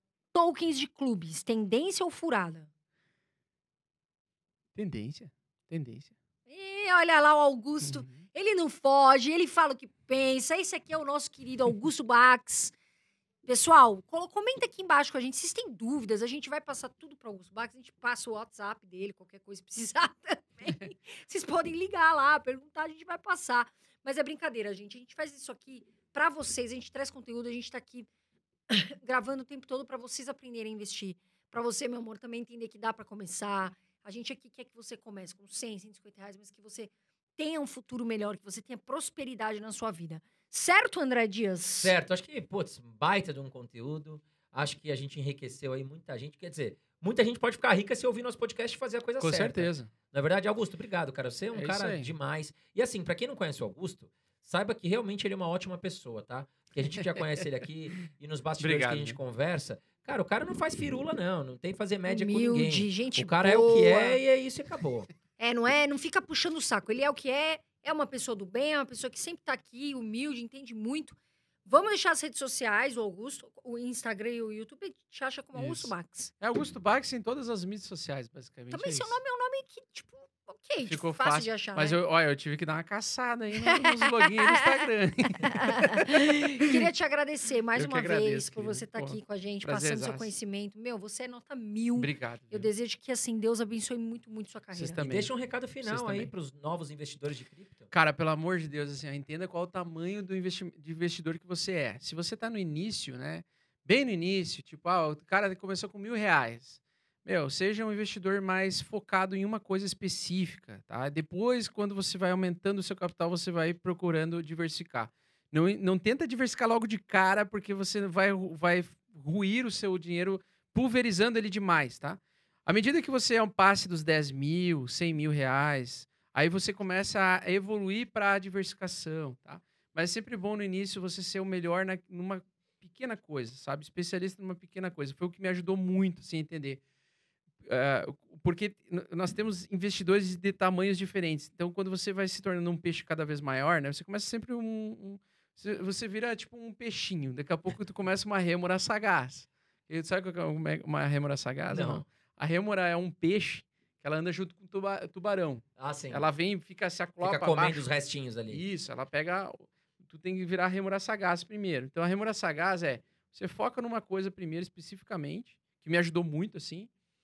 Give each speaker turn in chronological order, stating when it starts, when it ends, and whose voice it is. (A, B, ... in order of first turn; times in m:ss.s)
0:00.3-0:02.7 A
0:04.7-0:06.1 B
0:06.5-0:12.7 A
0:07.8-0:08.2 B
0:13.4-0:28.1 A
0:28.7-0:41.9 A
0:41.8-1:05.1 C
0:49.2-0:49.9 B
0:51.5-0:52.1 B
0:58.6-0:59.2 B
1:02.0-1:04.2 A
1:05.4-1:16.3 A
1:15.6-1:19.2 B
1:18.7-1:22.0 A
1:20.8-1:26.1 B
1:23.6-1:24.8 A
1:25.4-1:35.0 A
1:27.8-1:30.3 B
1:32.0-1:32.7 B
1:34.7-1:35.3 B
1:35.0-1:37.9 C
1:35.8-1:36.3 B
1:37.9-2:16.8 B
2:17.6-2:37.9 B
2:31.7-2:32.0 C
2:35.8-2:36.2 C
2:37.2-2:38.6 C
2:38.5-2:46.9 B